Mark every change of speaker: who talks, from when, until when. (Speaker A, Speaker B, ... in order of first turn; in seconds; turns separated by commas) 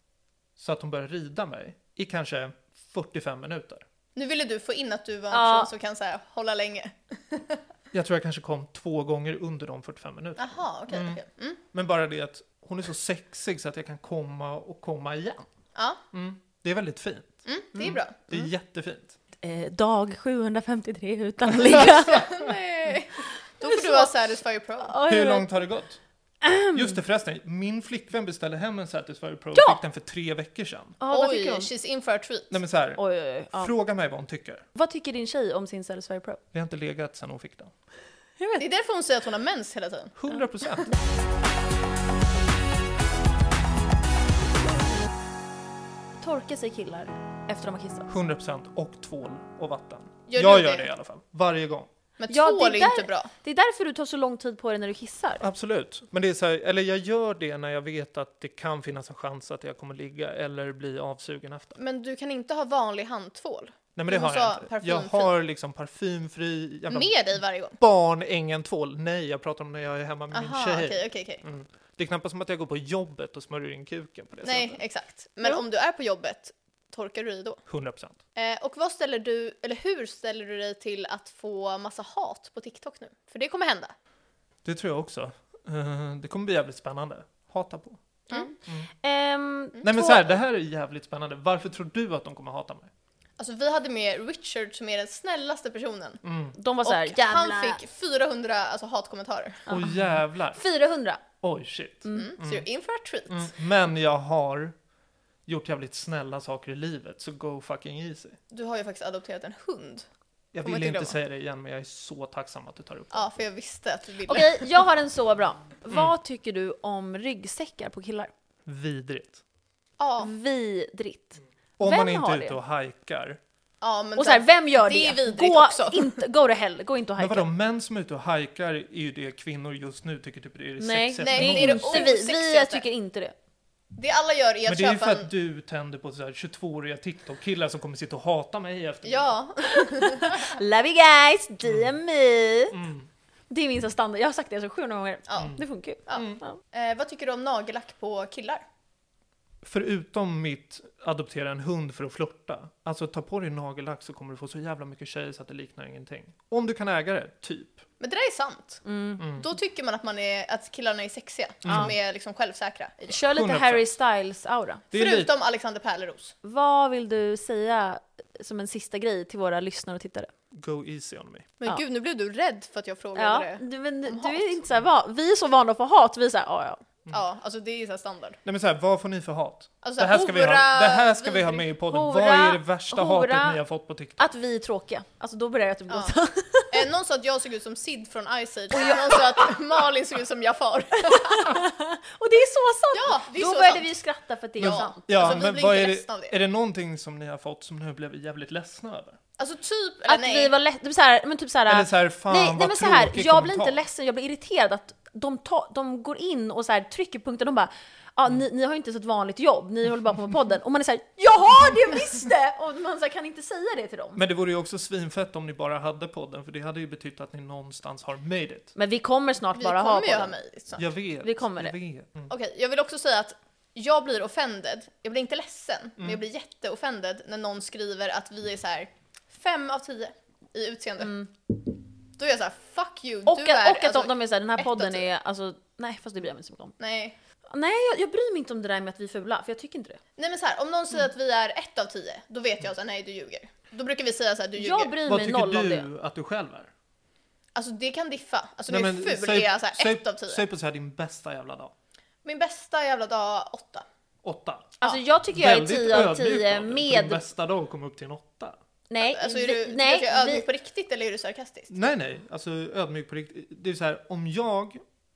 Speaker A: 0.6-3.9, Speaker B: 4.2-7.6, Speaker C: 5.3-5.7, Speaker A: 7.9-15.5, Speaker B: 10.4-11.6, Speaker B: 15.8-16.0, Speaker A: 16.1-19.1, Speaker B: 17.5-18.2, Speaker C: 19.4-22.3, Speaker B: 21.7-25.0, Speaker C: 23.2-24.1, Speaker C: 24.8-25.5, Speaker A: 25.1-26.0, Speaker C: 26.4-27.0, Speaker A: 26.7-31.0, Speaker C: 29.5-29.8, Speaker C: 31.0-31.7, Speaker B: 31.1-32.6, Speaker A: 32.5-33.0, Speaker C: 33.0-33.7, Speaker A: 33.5-34.6, Speaker C: 34.8-36.4, Speaker A: 36.5-37.7, Speaker C: 38.4-38.6, Speaker B: 38.6-40.1, Speaker A: 40.2-40.9, Speaker C: 46.2-48.1, Speaker A: 48.1-51.9, Speaker B: 50.3-50.9, Speaker B: 52.2-53.3, Speaker C: 52.3-55.5, Speaker A: 55.4-61.8, Speaker B: 61.8-65.3, Speaker A: 64.0-67.1, Speaker B: 66.9-67.8, Speaker A: 67.8-74.8, Speaker B: 70.3-71.4, Speaker B: 74.4-77.6, Speaker A: 77.7-78.2, Speaker B: 78.4-83.9, Speaker A: 84.6-88.0, Speaker C: 88.3-90.3, Speaker A: 89.8-92.9, Speaker B: 93.4-96.2, Speaker A: 96.2-96.5, Speaker C: 96.6-97.8, Speaker B: 96.8-99.7, Speaker C: 99.7-100.0, Speaker A: 99.7-100.6, Speaker C: 100.5-101.2, Speaker A: 101.4-102.7, Speaker B: 102.2-103.5, Speaker A: 103.3-104.8, Speaker A: 105.5-108.4, Speaker B: 108.5-110.1, Speaker A: 110.5-113.3, Speaker B: 110.6-111.2, Speaker B: 113.1-114.5, Speaker C: 114.3-118.3, Speaker A: 118.7-119.4, Speaker B: 120.0-120.3, Speaker C: 120.2-122.6, Speaker A: 121.8-123.4, Speaker B: 123.8-126.2, Speaker C: 124.2-127.5, Speaker A: 127.2-132.1, Speaker C: 130.8-133.3, Speaker B: 131.2-132.8, Speaker B: 133.9-135.3, Speaker A: 134.7-139.4, Speaker B: 139.1-140.6, Speaker C: 139.6-142.8, Speaker A: 142.7-143.1, Speaker C: 143.5-146.6, Speaker B: 145.3-145.6, Speaker A: 145.4-146.4, Speaker B: 146.1-148.6, Speaker A: 149.6-157.8, Speaker B: 158.0-163.1, Speaker C: 158.8-159.3, Speaker A: 159.2-159.5, Speaker A: 161.6-161.9, Speaker C: 161.7-161.9, Speaker C: 163.1-164.8, Speaker A: 163.1-163.9, Speaker B: 164.9-166.3, Speaker A: 164.9-165.3, Speaker C: 166.4-170.3, Speaker A: 170.5-171.5, Speaker B: 171.6-174.6, Speaker C: 173.2-176.8, Speaker B: 177.1-178.4, Speaker A: 178.4-184.2, Speaker B: 179.8-181.7, Speaker C: 181.9-183.6, Speaker C: 184.2-186.8, Speaker B: 185.9-186.1, Speaker B: 186.7-191.6, Speaker C: 188.7-189.4, Speaker C: 191.1-195.4, Speaker B: 192.9-193.9, Speaker B: 194.6-196.4, Speaker A: 194.6-199.2, Speaker B: 199.4-200.5, Speaker C: 200.1-214.2, Speaker A: 201.7-203.8, Speaker A: 214.2-218.7, Speaker C: 218.8-220.3, Speaker B: 219.6-220.9, Speaker A: 220.8-222.3, Speaker C: 221.2-221.7, Speaker B: 222.3-231.2, Speaker C: 231.0-231.3, Speaker B: 232.2-235.1, Speaker C: 233.3-236.7, Speaker B: 236.8-237.2, Speaker C: 237.5-240.0, Speaker B: 240.2-245.0, Speaker C: 244.6-245.9, Speaker A: 245.1-246.7, Speaker B: 247.6-250.4, Speaker A: 248.7-251.7, Speaker B: 252.2-253.8, Speaker A: 254.2-254.8, Speaker C: 254.8-257.2, Speaker A: 255.3-258.6, Speaker C: 258.9-260.5, Speaker B: 259.0-261.7, Speaker A: 261.7-264.8